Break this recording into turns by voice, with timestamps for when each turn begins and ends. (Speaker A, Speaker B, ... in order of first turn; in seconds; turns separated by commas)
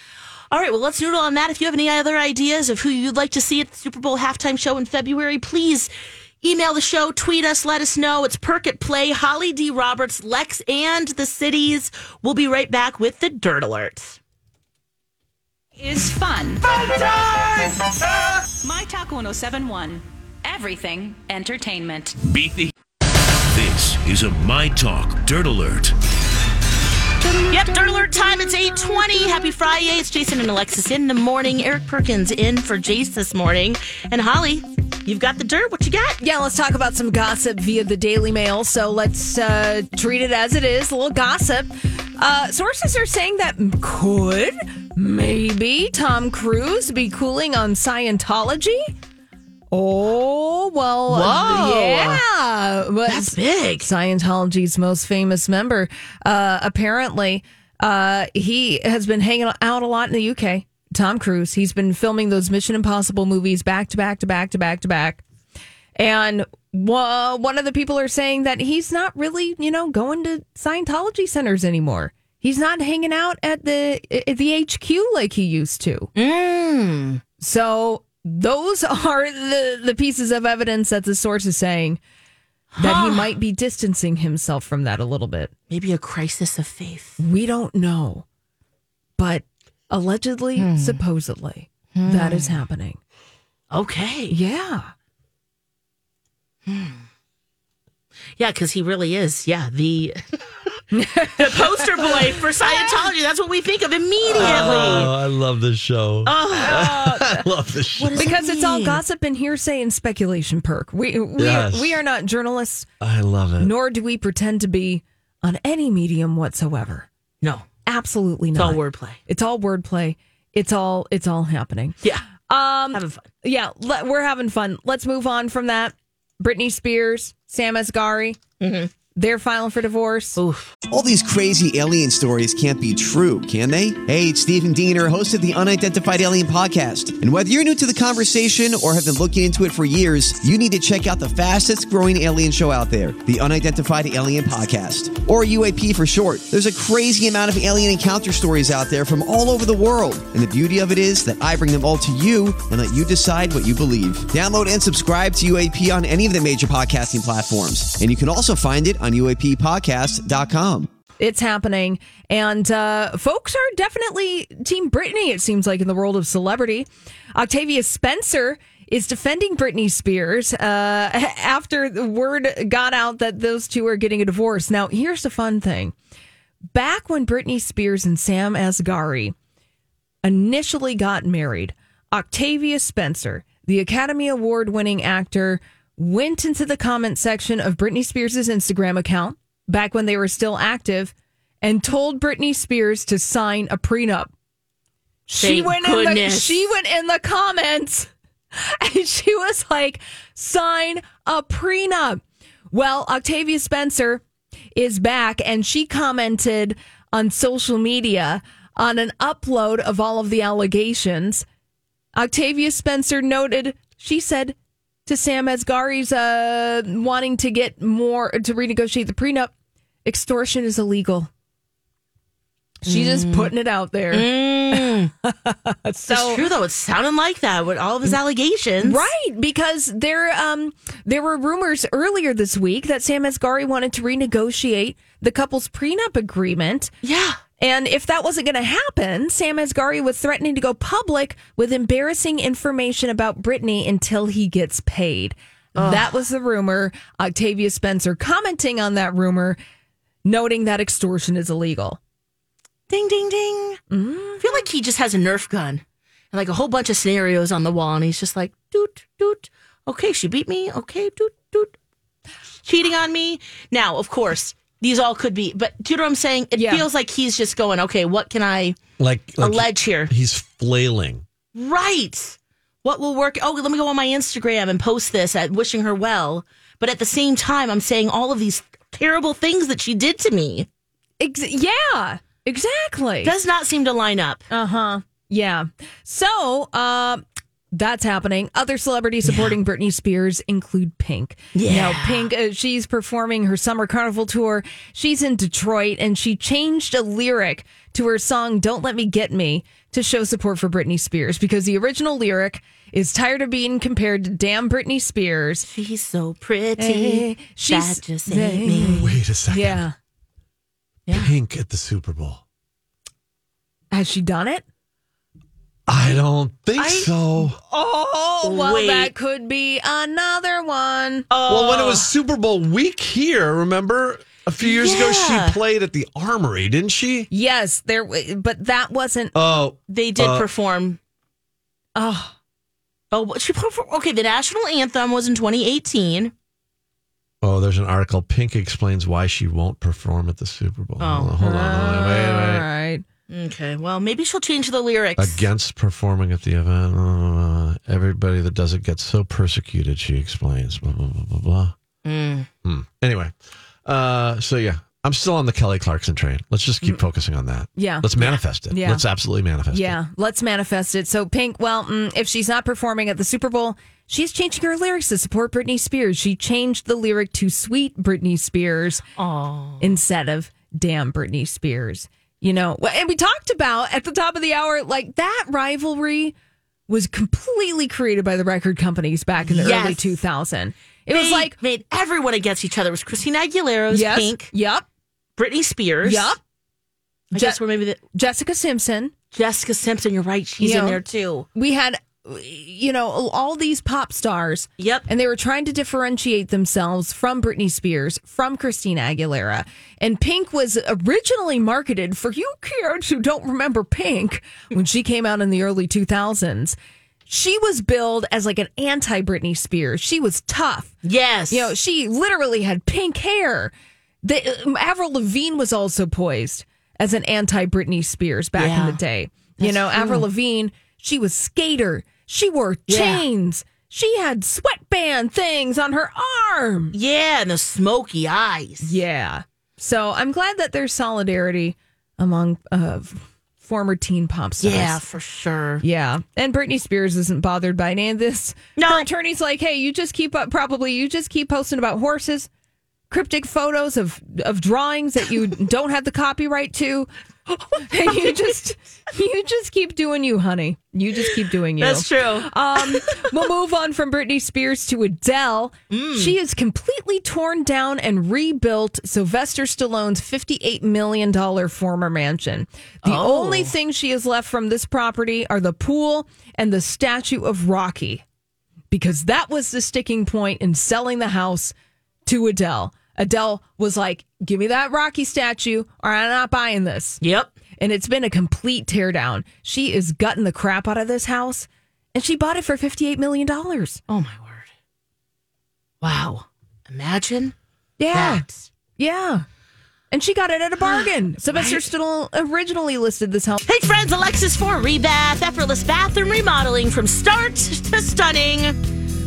Speaker A: 0.5-5.9, Speaker A: 6.4-14.2, Speaker B: 15.8-22.2, Speaker C: 22.2-22.7, Speaker C: 23.5-25.9, Speaker A: 27.5-36.2, Speaker D: 27.9-29.3, Speaker D: 36.2-48.9, Speaker D: 49.7-65.2, Speaker A: 51.1-52.2, Speaker A: 53.1-53.9, Speaker D: 66.0-76.1, Speaker A: 76.2-77.2, Speaker D: 77.4-82.0, Speaker A: 82.7-83.3, Speaker D: 82.8-85.5, Speaker A: 85.7-87.2, Speaker D: 87.2-88.2, Speaker D: 89.2-93.0, Speaker A: 90.6-91.0, Speaker A: 92.0-92.6, Speaker A: 93.7-94.4, Speaker D: 94.3-94.9, Speaker A: 96.7-97.0, Speaker A: 98.4-100.2, Speaker D: 100.9-103.1, Speaker A: 101.4-105.1, Speaker E: 104.3-108.3, Speaker D: 104.3-105.1, Speaker A: 106.3-106.9, Speaker D: 106.5-107.5, Speaker A: 108.0-109.0, Speaker D: 108.2-112.9, Speaker E: 111.4-112.0, Speaker E: 113.0-113.7, Speaker D: 113.6-117.1, Speaker A: 117.4-117.7, Speaker D: 117.9-122.0, Speaker A: 118.5-119.2, Speaker D: 122.5-128.4, Speaker A: 122.9-123.3, Speaker A: 128.6-128.9, Speaker D: 129.2-130.4, Speaker A: 130.4-130.7, Speaker F: 130.9-160.9, Speaker D: 161.2-175.9, Speaker D: 176.7-179.3, Speaker D: 180.2-194.3, Speaker D: 195.3-204.2, Speaker A: 195.4-196.7, Speaker D: 204.8-211.4, Speaker D: 212.2-214.6, Speaker D: 215.1-219.5, Speaker D: 220.1-221.3, Speaker D: 222.8-226.4, Speaker A: 222.9-223.5, Speaker A: 224.1-225.1, Speaker A: 226.1-229.1, Speaker D: 228.8-236.9, Speaker A: 237.0-237.4, Speaker D: 237.6-249.6, Speaker A: 245.8-246.1, Speaker D: 250.2-252.0, Speaker A: 252.9-253.8, Speaker D: 253.9-254.6, Speaker A: 254.4-261.7, Speaker A: 262.6-268.8, Speaker D: 266.6-266.9, Speaker E: 269.0-271.2, Speaker A: 269.4-270.1, Speaker A: 271.6-280.7, Speaker D: 281.2-283.3, Speaker A: 283.2-284.4, Speaker D: 284.5-305.7, Speaker A: 289.2-289.6, Speaker A: 291.6-292.3, Speaker A: 305.6-309.1, Speaker D: 306.8-309.9, Speaker E: 308.8-309.8, Speaker E: 311.1-312.4, Speaker D: 313.9-314.6, Speaker E: 315.9-317.6, Speaker A: 316.8-317.1, Speaker D: 317.4-321.3, Speaker A: 318.4-319.1, Speaker A: 321.3-322.1, Speaker E: 321.5-327.3, Speaker A: 324.6-325.6, Speaker D: 327.3-329.3, Speaker E: 329.3-330.5, Speaker A: 329.9-331.0, Speaker D: 332.0-332.3, Speaker A: 333.1-336.3, Speaker E: 337.4-342.7, Speaker A: 341.0-341.3, Speaker D: 341.4-343.1, Speaker A: 343.3-345.4, Speaker E: 345.2-351.8, Speaker A: 352.1-352.5, Speaker E: 352.6-360.0, Speaker D: 357.8-359.1, Speaker D: 359.7-369.0, Speaker A: 369.2-370.0, Speaker D: 369.8-376.4, Speaker D: 376.9-381.6, Speaker A: 379.4-380.2, Speaker A: 381.1-384.5, Speaker D: 383.9-384.9, Speaker A: 385.4-386.4, Speaker D: 386.0-386.4, Speaker A: 387.3-388.0, Speaker D: 387.3-387.6, Speaker D: 388.1-389.1, Speaker A: 389.3-391.5, Speaker D: 390.6-391.0, Speaker D: 391.5-410.9, Speaker A: 394.8-395.1, Speaker A: 411.0-411.7, Speaker D: 411.5-426.9, Speaker A: 418.6-419.0, Speaker A: 419.6-420.3, Speaker A: 422.9-423.2, Speaker A: 426.9-429.0, Speaker D: 428.8-435.0, Speaker A: 434.6-435.8, Speaker D: 435.8-442.5, Speaker A: 438.8-439.1, Speaker D: 443.1-447.1, Speaker D: 447.8-468.2, Speaker A: 448.1-448.4, Speaker A: 451.8-453.2, Speaker A: 455.9-456.4, Speaker A: 463.0-463.7, Speaker D: 468.9-471.7, Speaker D: 472.3-477.2, Speaker A: 477.2-477.5, Speaker D: 477.8-484.0, Speaker A: 484.1-484.7, Speaker A: 486.0-487.5, Speaker D: 488.0-488.4, Speaker A: 488.1-488.7, Speaker D: 489.0-489.4, Speaker D: 490.1-493.6, Speaker A: 490.8-491.9, Speaker A: 493.7-498.8